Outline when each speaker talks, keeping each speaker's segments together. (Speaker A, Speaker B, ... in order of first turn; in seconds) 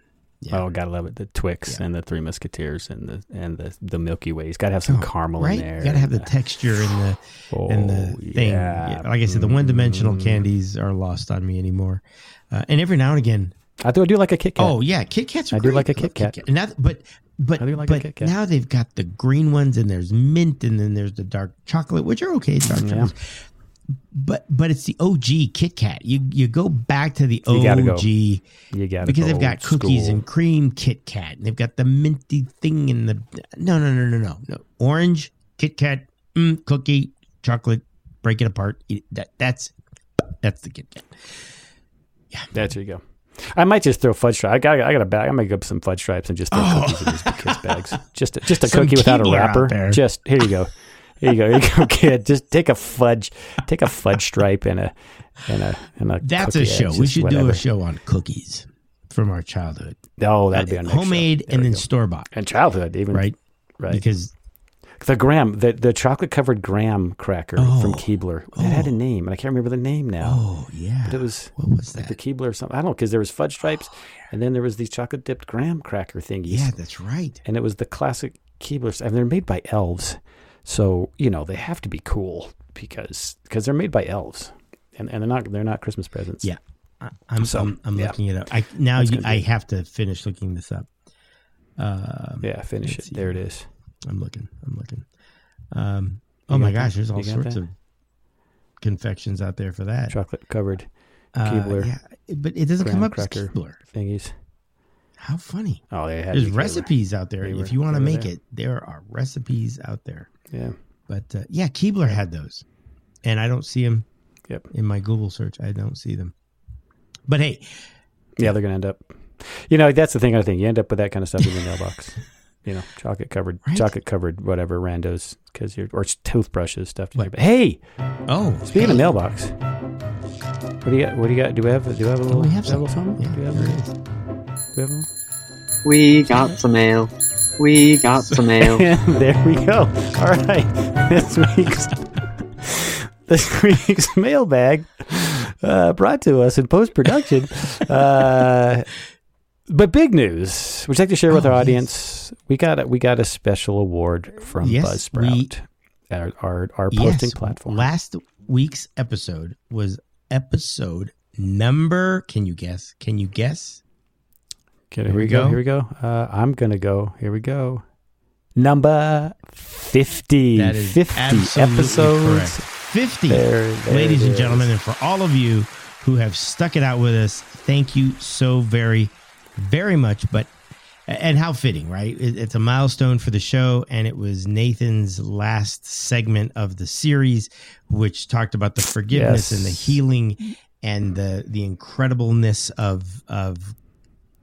Speaker A: 0.4-0.7, 4.9-13.5, 14.6-23.4, 24.1-28.4, 29.0-41.2, 42.3-42.7, 46.5-47.8, 48.5-50.5, 56.2-60.0, 60.5-62.3, 63.9-64.3, 67.6-69.0, 70.2-72.2, 76.5-77.4, 86.4-90.9, 91.8-93.4, 94.1-95.1, 95.7-97.7, 98.8-100.2, 101.3-103.8, 105.2-110.3, 111.1-112.6, 113.2-114.0, 114.7-116.3, 117.3-117.9, 123.6-123.9, 128.3-129.1, 132.3-133.9, 151.3-151.9, 154.6-155.5, 156.9-163.8, 165.1-165.6, 170.5-180.5, 181.1-193.7
Speaker B: 0.5-6.3, 7.5-10.4, 13.8-14.8, 15.5-16.4, 17.6-18.3, 22.7-23.1, 27.5-28.1, 28.7-30.2, 42.5-57.6, 60.2-64.0, 65.0-70.4, 71.0-76.8, 77.4-86.5, 87.4-88.3, 88.9-89.5, 92.4-93.7, 96.5-97.6, 100.1-101.9, 102.8-104.3, 105.9-108.3, 110.5-110.7, 118.4-127.8, 128.6-129.6, 130.8-133.8, 134.7-135.1, 138.6-142.1, 142.6-148.9, 149.7-157.9, 164.9-167.8, 168.5-172.6, 173.3-174.7, 189.1-190.0
Speaker C: 135.8-138.9